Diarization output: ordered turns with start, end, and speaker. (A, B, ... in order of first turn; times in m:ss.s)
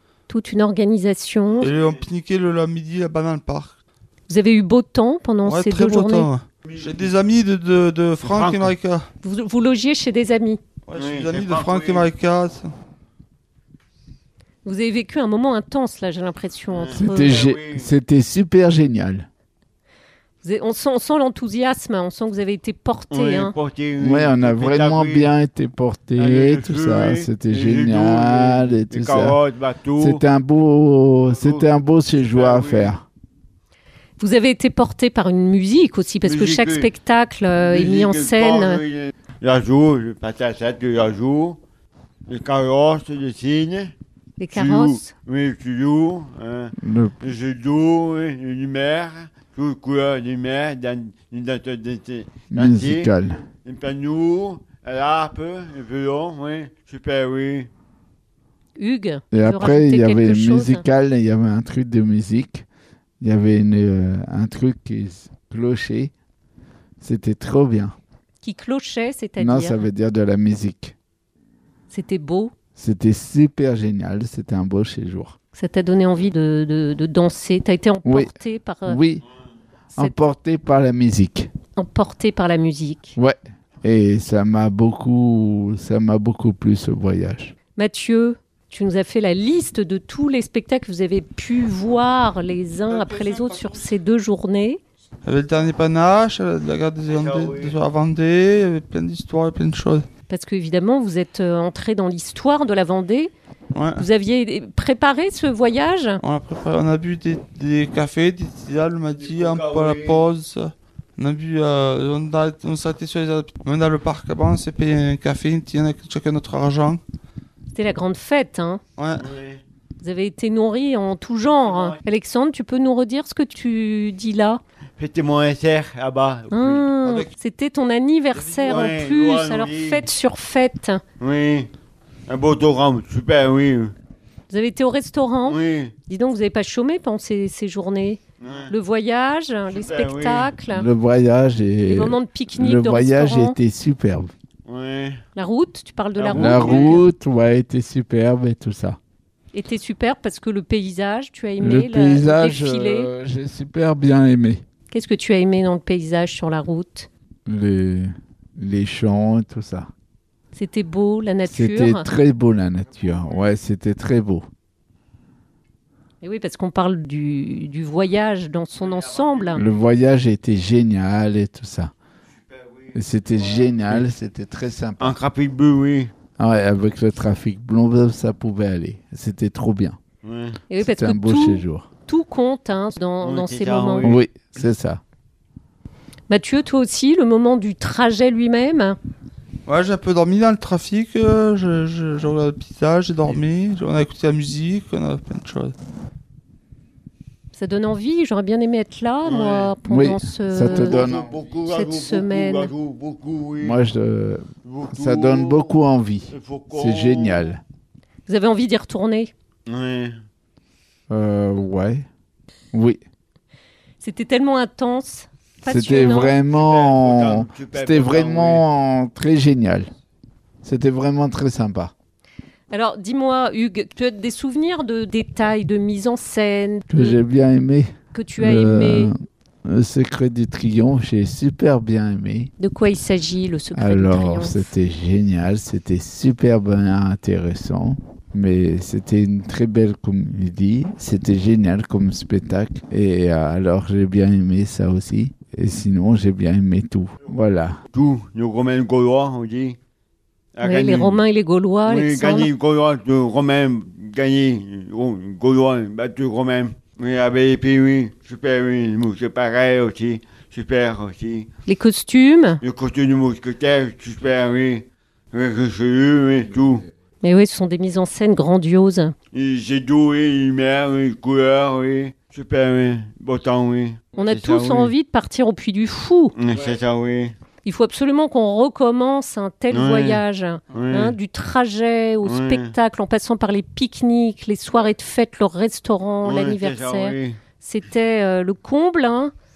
0:00.3-0:01.7 A
0:01.6-0:02.0 B
0:01.6-0:03.8 C
0:04.3-0:06.3 A
0:05.4-0:09.1 C
0:08.2-0:08.7 B
0:09.2-0:10.6 A
0:10.9-0:12.7 C
0:10.9-0:12.1 B
0:14.6-0:17.4 A
0:16.7-0:17.9 B
0:16.9-0:19.3 D
0:20.4-0:23.5 A
0:23.1-0:25.3 B
0:24.0-0:29.4 D
0:26.2-0:30.2 B
0:30.0-0:33.0 D
0:31.3-0:32.9 B
0:34.2-0:38.8 A
0:36.2-0:36.9 B
0:37.6-0:41.6 B
0:42.3-0:43.9 B
0:44.4-0:45.1 A
0:44.5-0:53.1 B
0:46.8-0:47.2 D
0:52.5-0:53.4 D
0:53.6-0:57.7 B
0:58.8-1:00.8 A
0:59.3-1:02.6 D
1:03.2-1:06.1 D
1:07.0-1:07.9 D
1:08.4-1:09.8 A
1:09.4-1:10.9 D
1:11.9-1:12.5 A
1:12.8-1:15.4 D
1:15.5-1:19.0 A
1:18.0-1:18.3 D
1:18.8-1:19.2 D
1:19.9-1:20.2 A
1:19.9-1:21.5 D
1:21.8-1:23.2 A
1:23.2-1:27.5 D
1:27.8-1:34.8 A
1:32.9-1:33.9 C
1:35.2-1:40.0 C
1:37.0-1:37.8 B
1:40.3-1:43.3 A
1:43.7-1:44.1 C
1:44.0-1:46.2 A
1:46.2-1:57.0 C
1:49.2-1:50.2 B
1:57.7-1:58.8 A
1:59.0-1:59.3 C
1:59.2-1:59.6 B
2:00.0-2:04.6 A
2:01.4-2:02.0 B
2:05.0-2:06.9 B
2:06.5-2:11.0 A
2:07.0-2:07.3 C
2:08.3-2:08.8 C
2:08.6-2:10.0 B
2:11.2-2:11.7 B
2:12.3-2:13.9 B
2:14.5-2:20.9 A
2:15.4-2:15.9 B
2:18.4-2:18.7 B
2:19.7-2:20.5 B
2:20.7-2:24.3 D
2:21.9-2:23.5 A
2:24.6-2:25.2 B
2:25.3-2:27.1 A
2:26.2-2:27.0 B
2:26.3-2:29.0 D
2:29.5-2:33.1 A
2:31.6-2:34.6 D
2:34.9-2:37.1 A
2:37.5-2:39.9 D
2:40.5-2:42.1 A
2:41.4-2:44.4 D
2:42.9-2:43.5 B
2:46.2-2:49.6 A
2:48.7-2:49.8 B
2:49.5-2:51.9 D
2:52.3-2:54.1 B
2:52.9-2:55.2 D
2:55.0-2:56.1 B
2:56.4-3:00.0 D
3:00.2-3:00.6 B
3:00.7-3:04.2 A
3:00.8-3:01.9 D
3:03.2-3:04.2 B
3:04.0-3:05.0 D
3:06.3-3:09.0 A
3:09.6-3:15.7 C
3:17.5-3:21.1 A
3:19.2-3:19.7 B
3:19.8-3:21.3 D
3:20.7-3:23.8 B
3:21.6-3:22.7 A
3:23.6-3:27.6 D
3:24.6-3:25.8 B
3:26.3-3:27.5 B
3:28.3-3:29.3 A
3:29.6-3:30.2 B
3:31.1-3:32.0 D
3:32.7-3:33.0 D
3:34.0-3:36.4 A
3:35.6-3:39.9 D
3:35.7-3:38.6 B
3:40.6-3:41.9 D
3:42.7-3:47.2 A
3:46.9-3:52.5 D
3:48.1-3:49.1 A
3:52.6-3:54.7 A
3:53.7-4:07.8 D
4:07.9-4:09.8 B
4:10.5-4:11.2 B
4:10.6-4:12.5 A
4:11.8-4:21.5 B
4:21.6-4:22.6 A
4:22.6-4:26.8 B
4:27.2-4:29.1 A
4:29.3-4:34.9 B
4:34.2-4:36.3 A
4:36.4-4:37.3 B
4:37.6-4:49.3 A
4:39.7-4:41.2 B
4:42.2-4:42.7 B
4:46.2-4:47.4 B